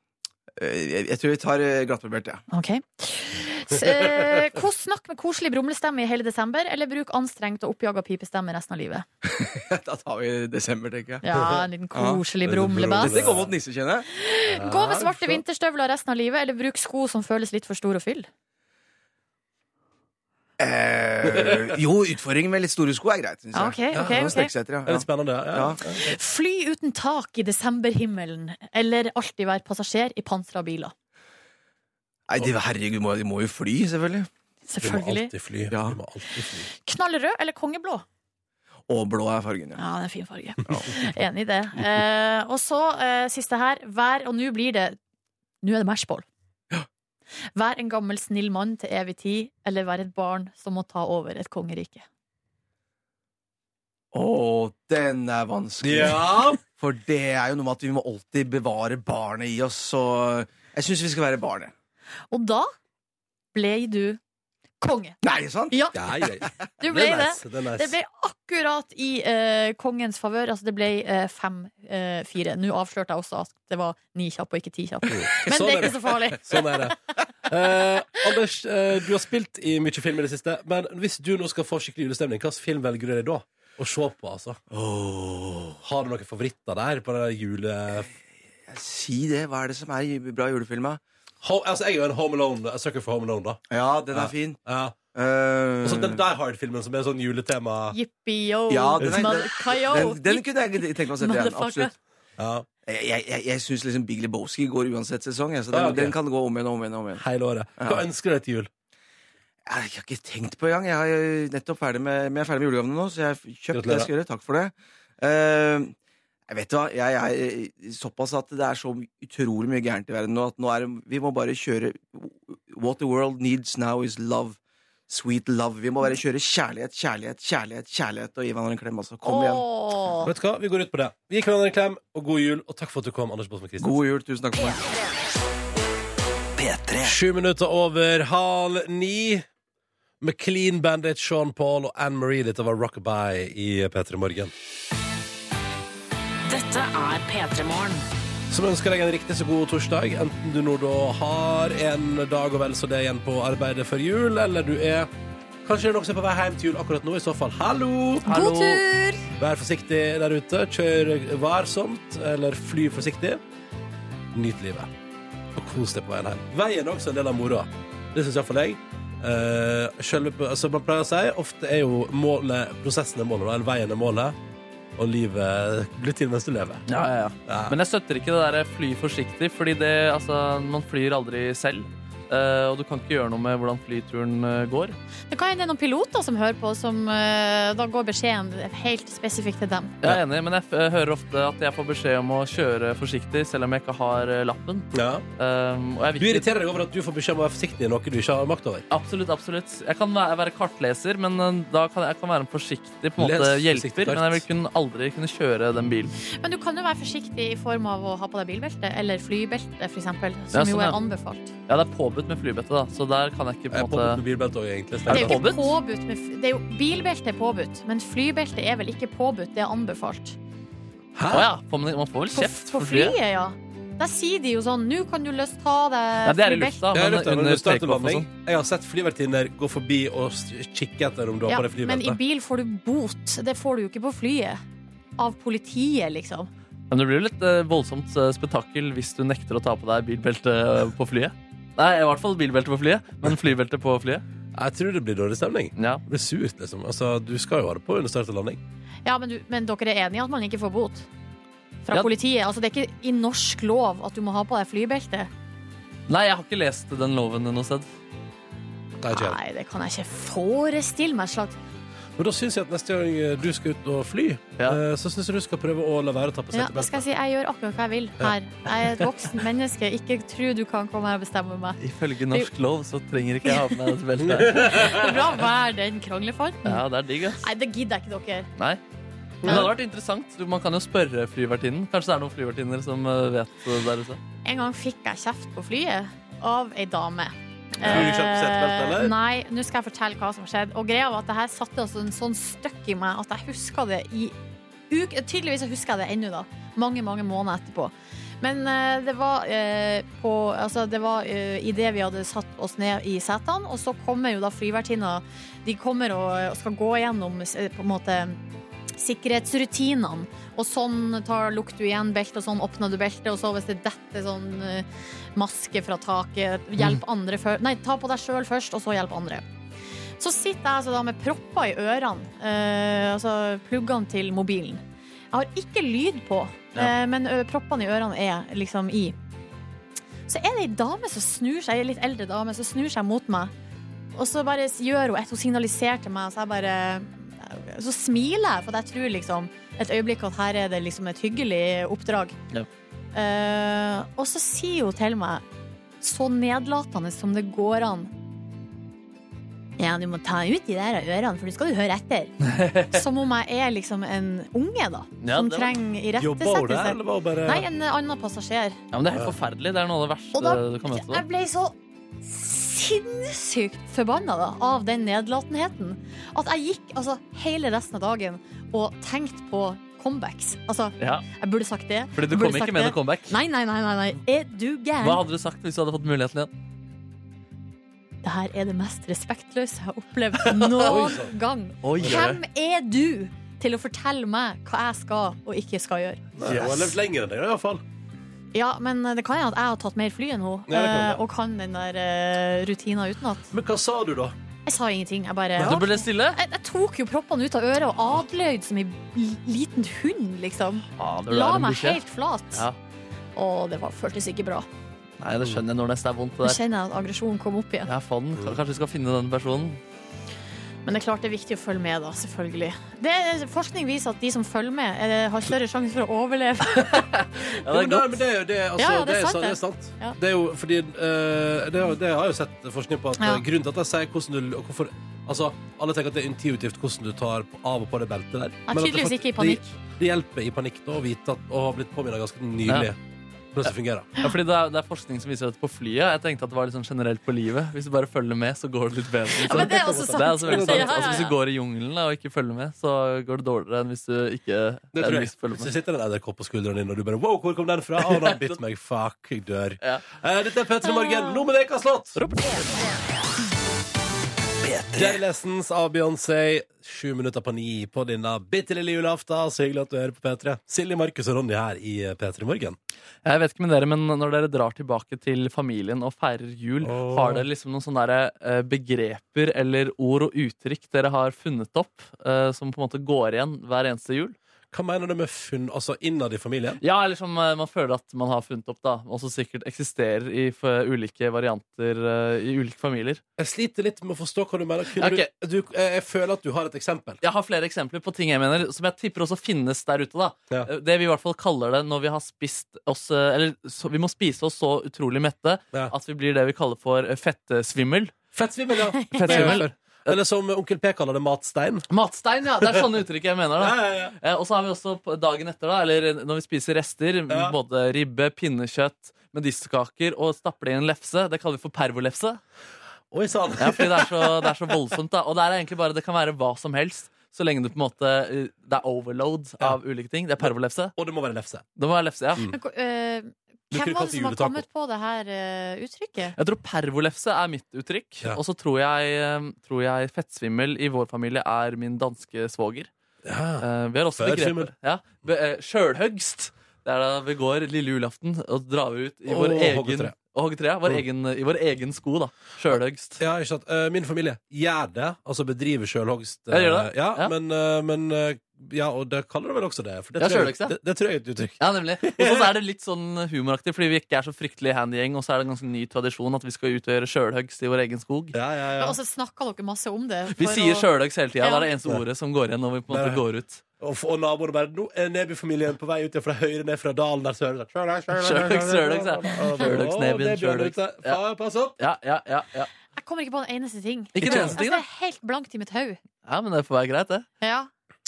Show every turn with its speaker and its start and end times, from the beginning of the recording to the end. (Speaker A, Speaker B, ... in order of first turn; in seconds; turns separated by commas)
Speaker A: 0.6-2.4, Speaker B: 2.5-9.1, Speaker A: 9.2-11.2, Speaker B: 11.2-13.2, Speaker A: 11.9-12.2, Speaker C: 12.4-13.5, Speaker A: 12.9-14.1, Speaker B: 14.1-18.3, Speaker C: 14.5-15.4, Speaker A: 20.6-25.8, Speaker C: 21.3-21.7, Speaker B: 23.5-24.5, Speaker C: 23.9-26.1, Speaker B: 26.0-30.9, Speaker A: 32.3-34.3, Speaker B: 34.7-35.3, Speaker C: 34.8-36.7, Speaker A: 35.7-36.0, Speaker B: 36.7-38.0, Speaker A: 38.9-39.8, Speaker B: 39.8-45.0, Speaker B: 45.6-46.2, Speaker B: 47.5-52.0, Speaker A: 54.1-61.7, Speaker C: 55.8-56.6, Speaker B: 62.3-62.7, Speaker B: 63.5-64.2, Speaker B: 64.8-66.2, Speaker A: 65.2-66.0, Speaker C: 65.9-67.9, Speaker B: 66.8-76.9, Speaker C: 75.1-84.6, Speaker A: 84.7-85.8, Speaker C: 85.8-88.1, Speaker A: 88.7-91.0, Speaker C: 91.4-93.6, Speaker A: 93.7-94.6, Speaker C: 94.1-95.0, Speaker A: 95.1-96.2, Speaker C: 95.8-98.0, Speaker B: 97.9-101.9, Speaker A: 98.7-101.9, Speaker C: 99.0-99.3, Speaker C: 102.4-102.7, Speaker A: 102.8-107.2, Speaker C: 105.7-106.1, Speaker C: 107.2-108.7, Speaker A: 107.8-108.0, Speaker A: 109.7-115.9, Speaker C: 113.7-114.1, Speaker A: 116.5-124.6, Speaker A: 125.1-129.6, Speaker B: 129.2-130.3, Speaker C: 130.2-133.9, Speaker A: 133.8-134.8, Speaker D: 136.6-137.1, Speaker C: 137.0-139.4, Speaker C: 140.2-144.5, Speaker D: 146.5-148.0, Speaker C: 148.5-155.1, Speaker C: 155.6-158.3, Speaker B: 158.2-159.2, Speaker E: 158.3-158.8, Speaker C: 159.4-163.4, Speaker C: 164.3-164.9, Speaker C: 165.5-174.3, Speaker C: 174.9-176.9, Speaker E: 176.9-184.9, Speaker C: 177.5-177.8, Speaker B: 185.3-189.9, Speaker E: 190.0-196.4, Speaker C: 194.9-195.2, Speaker C: 196.2-198.8, Speaker E: 198.9-206.1, Speaker C: 203.2-204.4, Speaker B: 206.4-211.5, Speaker E: 210.5-211.0, Speaker E: 211.7-214.2, Speaker C: 213.7-215.4, Speaker E: 215.1-215.8, Speaker B: 215.1-220.4, Speaker C: 221.1-221.5, Speaker E: 221.3-223.2, Speaker B: 222.3-226.8, Speaker E: 226.2-228.3, Speaker C: 226.9-232.2, Speaker B: 231.5-234.6, Speaker B: 235.2-236.5, Speaker E: 236.9-244.2, Speaker C: 244.5-248.6, Speaker E: 245.8-246.0, Speaker B: 249.0-251.1, Speaker B: 251.8-255.3, Speaker E: 256.1-257.9, Speaker C: 259.0-259.4, Speaker B: 259.1-261.6, Speaker C: 262.2-267.1, Speaker B: 266.5-272.5, Speaker E: 271.8-274.9, Speaker B: 273.4-273.8, Speaker C: 274.2-275.2, Speaker B: 274.6-276.8, Speaker E: 276.6-277.4, Speaker B: 277.4-278.5, Speaker C: 279.4-279.7, Speaker E: 279.4-284.2, Speaker B: 284.4-294.3, Speaker C: 287.8-289.1, Speaker B: 294.9-308.4, Speaker B: 308.9-319.4, Speaker B: 320.2-324.8, Speaker B: 325.3-329.1, Speaker B: 330.3-333.5, Speaker B: 334.1-342.4, Speaker B: 343.1-345.4, Speaker B: 346.0-348.1, Speaker B: 349.8-352.3, Speaker E: 352.4-353.0, Speaker B: 352.9-358.8, Speaker E: 355.2-355.8, Speaker C: 356.2-357.6, Speaker E: 358.9-361.2, Speaker B: 360.3-375.2, Speaker E: 371.0-371.2, Speaker E: 372.1-373.3, Speaker E: 375.0-376.5, Speaker B: 378.2-386.7, Speaker E: 380.5-380.9, Speaker C: 380.8-381.3, Speaker E: 381.8-382.4, Speaker C: 382.0-382.2, Speaker C: 386.4-387.8, Speaker E: 386.4-386.8, Speaker B: 388.5-393.5, Speaker C: 390.7-391.2, Speaker C: 393.5-394.3, Speaker B: 394.6-402.6, Speaker C: 395.6-395.8, Speaker E: 395.6-396.4, Speaker E: 401.0-402.0, Speaker B: 403.4-404.7, Speaker E: 405.2-406.6, Speaker B: 406.4-407.9, Speaker E: 407.9-409.8, Speaker B: 410.9-417.1, Speaker E: 416.9-418.1, Speaker C: 417.6-433.0, Speaker B: 418.8-420.2, Speaker B: 423.2-423.4, Speaker B: 428.7-429.7, Speaker C: 433.5-434.1, Speaker E: 434.2-445.7, Speaker B: 439.4-441.3, Speaker C: 439.5-441.2, Speaker C: 444.9-452.2, Speaker E: 448.1-448.5, Speaker E: 452.1-452.7, Speaker D: 454.6-455.1, Speaker C: 454.9-462.8, Speaker E: 463.2-474.4, Speaker C: 466.8-467.4, Speaker C: 474.7-476.8, Speaker E: 476.8-483.2, Speaker C: 483.4-487.2, Speaker E: 484.9-485.3, Speaker E: 487.2-498.1, Speaker C: 498.3-501.9, Speaker B: 499.0-499.6, Speaker E: 499.1-500.2, Speaker E: 501.9-512.4, Speaker C: 503.6-504.1, Speaker C: 507.3-507.5, Speaker C: 513.1-514.5, Speaker E: 513.6-520.9, Speaker C: 520.4-521.6, Speaker E: 521.8-522.4, Speaker B: 522.5-526.3, Speaker C: 523.7-524.6, Speaker E: 526.4-532.9, Speaker C: 533.2-534.7, Speaker E: 533.6-543.2, Speaker C: 539.3-540.1, Speaker C: 542.7-552.5, Speaker E: 546.5-547.3, Speaker E: 550.2-550.7, Speaker E: 551.6-558.4, Speaker C: 558.3-559.0, Speaker B: 558.8-560.9, Speaker E: 560.3-563.6, Speaker B: 561.4-561.7, Speaker C: 562.9-563.2, Speaker C: 563.8-571.8, Speaker E: 568.1-571.2, Speaker E: 571.8-572.7, Speaker B: 572.9-576.0, Speaker E: 574.1-574.8, Speaker C: 574.2-574.6, Speaker E: 576.2-577.2, Speaker B: 577.4-577.7